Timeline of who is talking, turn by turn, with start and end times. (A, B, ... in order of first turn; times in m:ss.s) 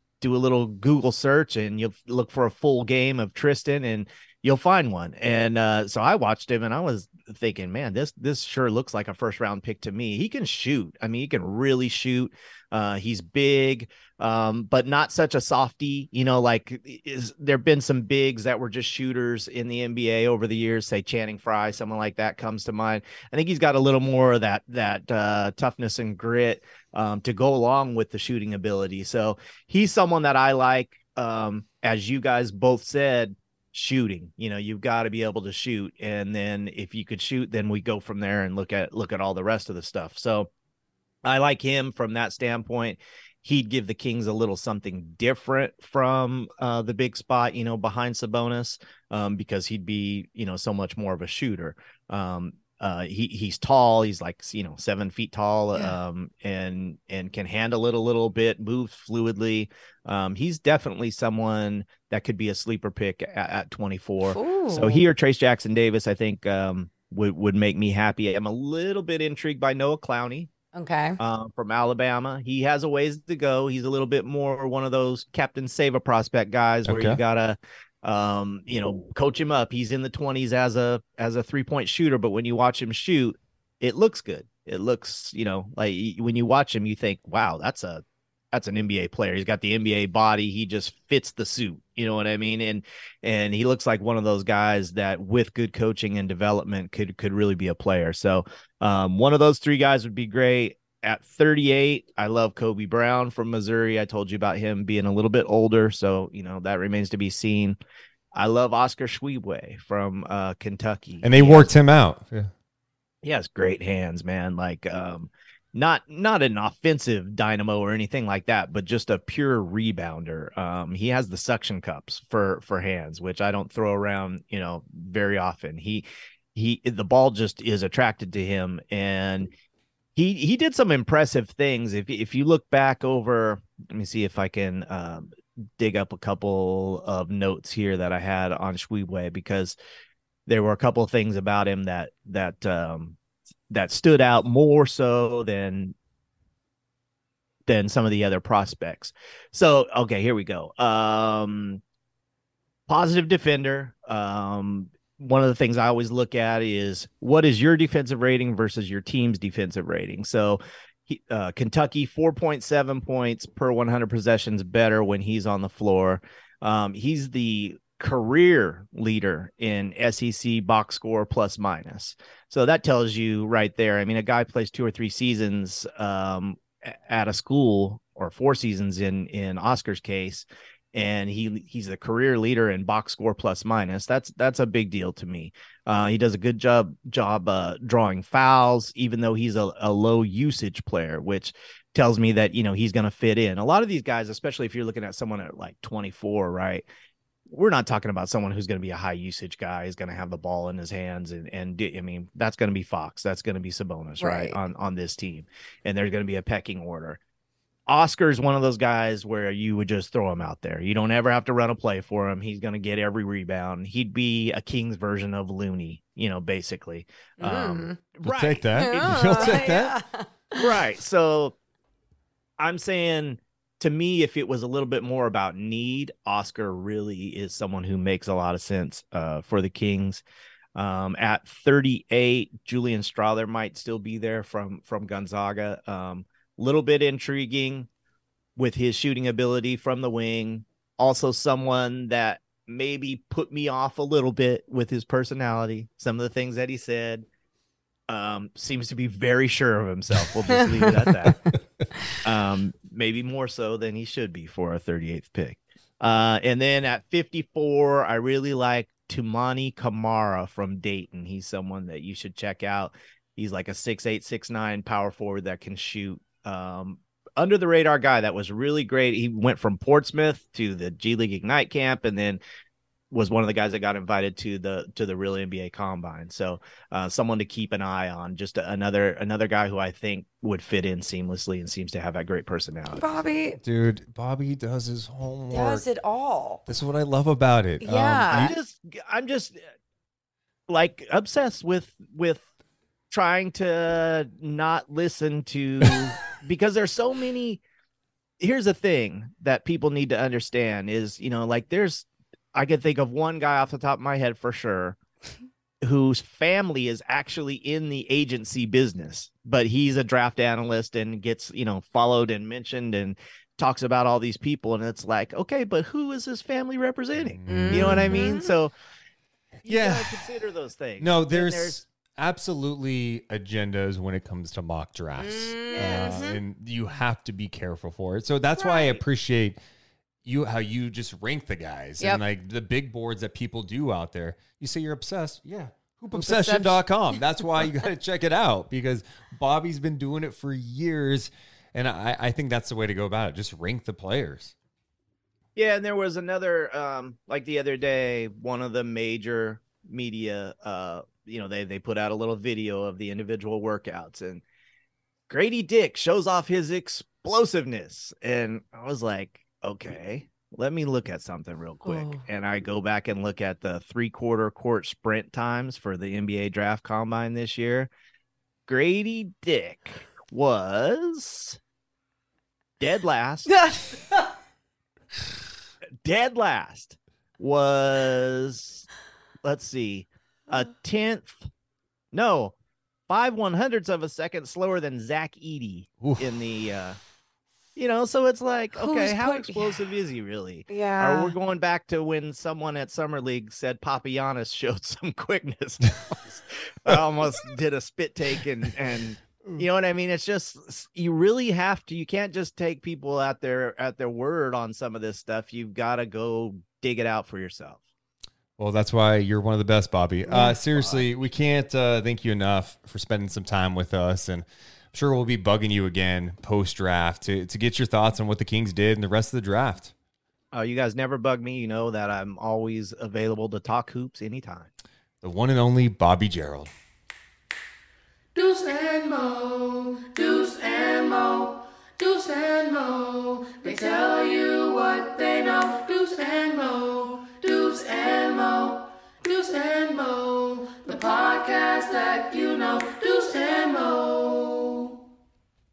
0:00.2-0:40.5 A
0:41.2-1:10.5 A
1:04.2-1:05.0 B
1:10.8-1:11.2 B
1:11.2-1:47.8 A
1:16.9-1:17.2 C
1:48.3-1:51.7 A
1:51.2-1:52.5 C
1:53.2-2:09.5 A
2:10.2-2:19.8 A
2:20.5-2:23.2 A
2:23.7-2:26.0 A
2:27.7-2:31.8 A
2:32.9-3:16.8 A
3:17.5-3:27.2 A
3:24.2-3:24.6 B
3:27.9-3:39.6 A
3:37.4-3:38.0 B
3:38.2-3:40.0 C
3:38.8-3:40.7 B
3:40.6-3:41.6 A
3:42.6-3:50.2 A
3:50.8-3:57.9 A
3:58.6-4:07.2 A
4:08.1-4:11.4 A
4:10.9-4:11.9 C
4:12.2-4:32.4 A
4:33.1-4:43.2 A
4:43.0-4:43.6 B
4:43.6-4:45.8 C
4:45.5-4:46.6 B
4:46.7-4:48.6 C
4:47.8-4:48.5 B
4:48.3-4:49.6 A
4:50.7-4:52.5 A
4:53.1-4:57.6 A
4:58.4-5:05.0 A
5:05.8-5:18.7 A
5:17.2-5:18.4 C
5:17.5-5:18.5 B
5:19.6-5:21.8 A
5:19.7-5:20.2 C
5:21.0-5:29.6 C
5:25.2-5:26.4 B
5:25.8-5:26.1 A
5:30.2-5:44.5 C
5:36.1-5:36.8 B
5:45.6-5:54.4 A
5:55.3-6:07.9 A
6:01.9-6:02.2 B
6:08.7-6:11.6 A
6:12.8-6:13.5 A
6:13.5-6:14.2 B
6:16.0-6:18.9 A
6:19.4-6:21.4 A
6:22.1-6:22.6 A
6:23.1-6:27.0 A
6:27.8-6:47.8 A
6:28.7-6:29.8 B
6:30.7-6:31.3 B
6:48.6-6:59.9 C
6:50.3-6:51.0 A
7:00.5-7:04.7 A
7:05.2-7:06.7 C
7:08.4-7:25.0 D